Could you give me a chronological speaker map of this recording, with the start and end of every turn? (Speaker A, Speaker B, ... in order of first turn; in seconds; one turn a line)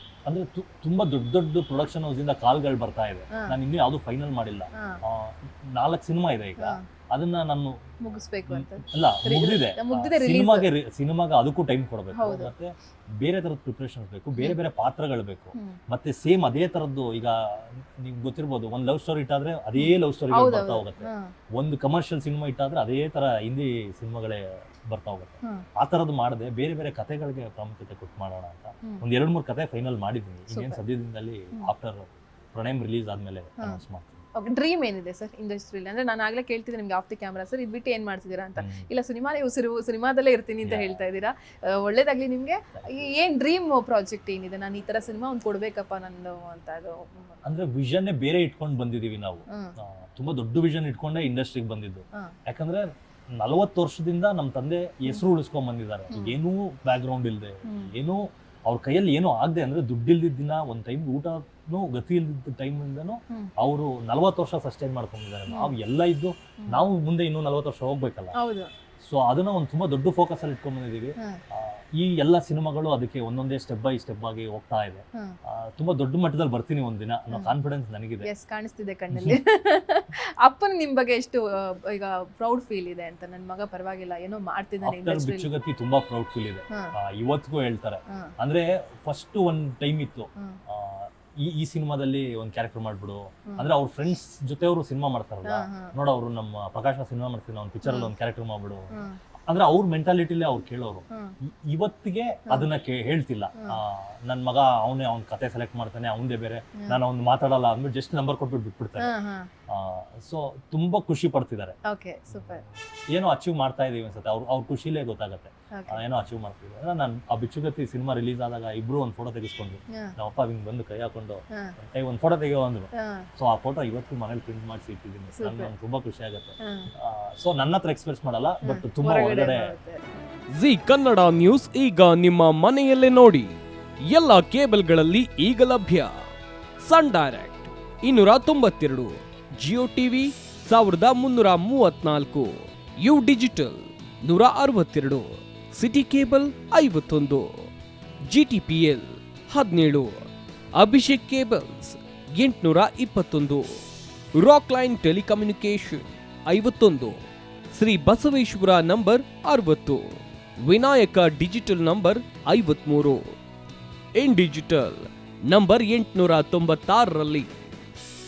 Speaker A: 0.2-34.2
Speaker B: 8.0-10.7
Speaker B: 12.1-12.5
Speaker B: 19.8-21.2
Speaker B: 30.5-30.8
Speaker B: 34.4-47.3
Speaker A: 38.6-38.9
Speaker A: 40.6-41.0
Speaker A: 42.7-43.1
Speaker A: 47.4-68.3
Speaker B: 57.6-57.9
Speaker B: 65.5-65.8
Speaker B: 68.3-68.7
Speaker A: 69.0-78.3
Speaker B: 78.2-85.5
Speaker A: 79.1-79.4
Speaker A: 84.8-109.1
Speaker B: 95.5-95.9
Speaker B: 97.8-98.1
Speaker B: 109.0-109.5
Speaker A: 109.7-111.8
Speaker B: 111.9-112.6
Speaker A: 112.3-129.7
Speaker B: 115.7-116.0
Speaker B: 123.0-123.2
Speaker B: 125.3-125.7
Speaker B: 128.6-130.0
Speaker C: 130.6-133.5
Speaker C: 134.1-136.1
Speaker C: 136.8-147.5
Speaker C: 148.3-150.1
Speaker C: 150.7-153.7
Speaker C: 154.3-157.2
Speaker C: 157.7-163.2
Speaker C: 164.2-167.5